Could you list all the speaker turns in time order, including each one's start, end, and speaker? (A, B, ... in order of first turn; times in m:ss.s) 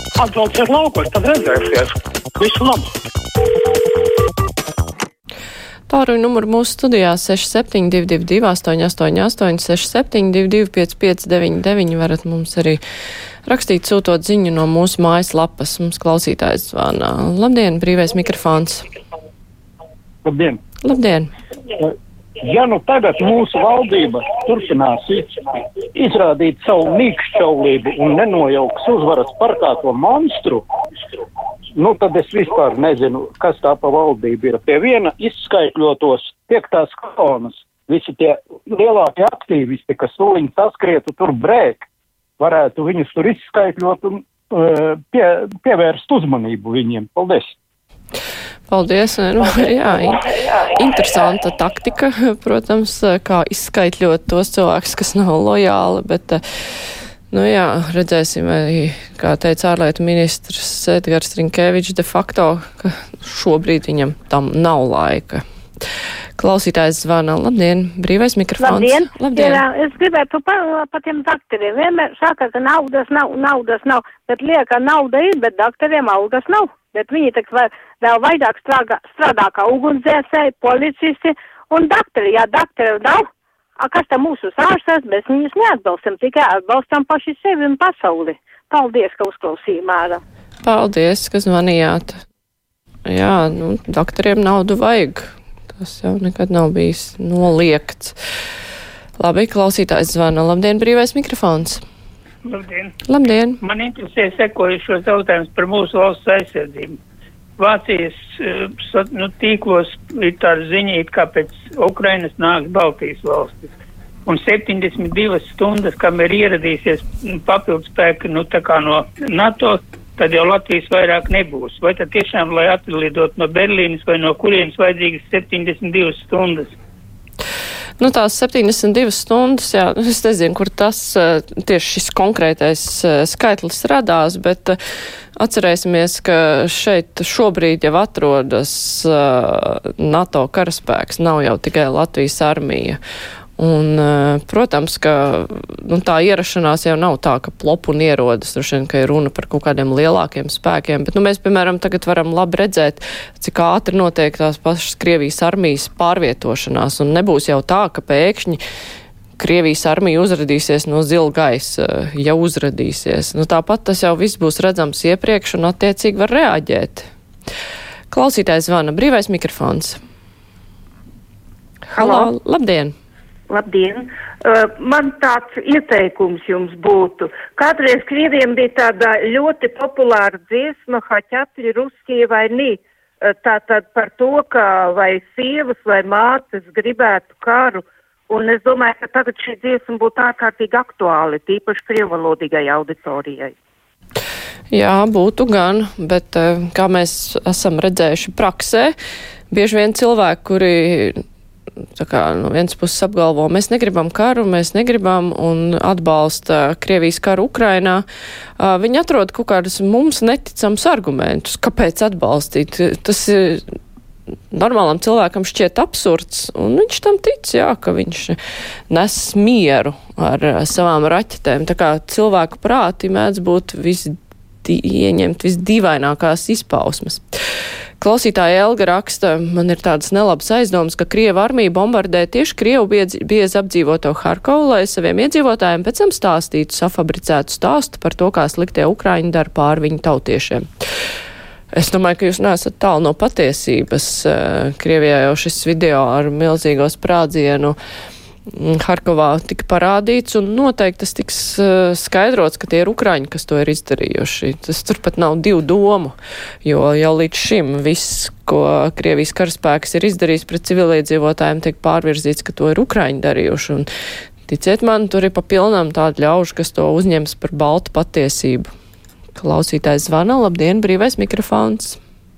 0:00.2-0:02.9 A
0:05.9-0:12.8 B
0:13.5-0:18.8 B
0:20.2-0:20.6 C
0:20.8-0:21.3 B
0:22.4-0:25.3 C
0:25.9-0:30.6 C
0:31.8-0:41.8 C
0:42.4-0:47.6 C
0:48.7-0:56.4 B
0:57.3-1:05.4 B
1:06.4-1:09.6 B
1:08.6-1:23.2 D
1:23.8-1:30.2 D
1:30.6-1:32.2 B
1:33.1-1:38.2 B
1:39.2-1:41.8 B
1:42.4-1:42.9 E
1:43.1-1:43.6 B
1:43.6-1:47.0 E
1:47.6-1:53.7 E
1:54.3-2:06.8 E
2:08.0-2:14.8 B
2:15.4-2:23.0 B
2:23.6-2:38.6 B
2:39.4-2:47.1 B
2:48.1-2:50.0 B
2:51.9-2:52.9 B
2:52.0-2:52.3 F
2:53.5-3:13.5 F
3:14.7-3:19.0 B
3:19.5-3:21.2 B
3:22.0-3:28.0 B
3:28.6-3:33.6 B
3:34.5-3:38.4 B
3:38.9-3:47.2 B
3:48.0-4:00.7 B
4:01.7-4:07.8 B
4:08.5-4:23.9 B
4:24.5-4:28.7 B
4:29.4-4:32.0 B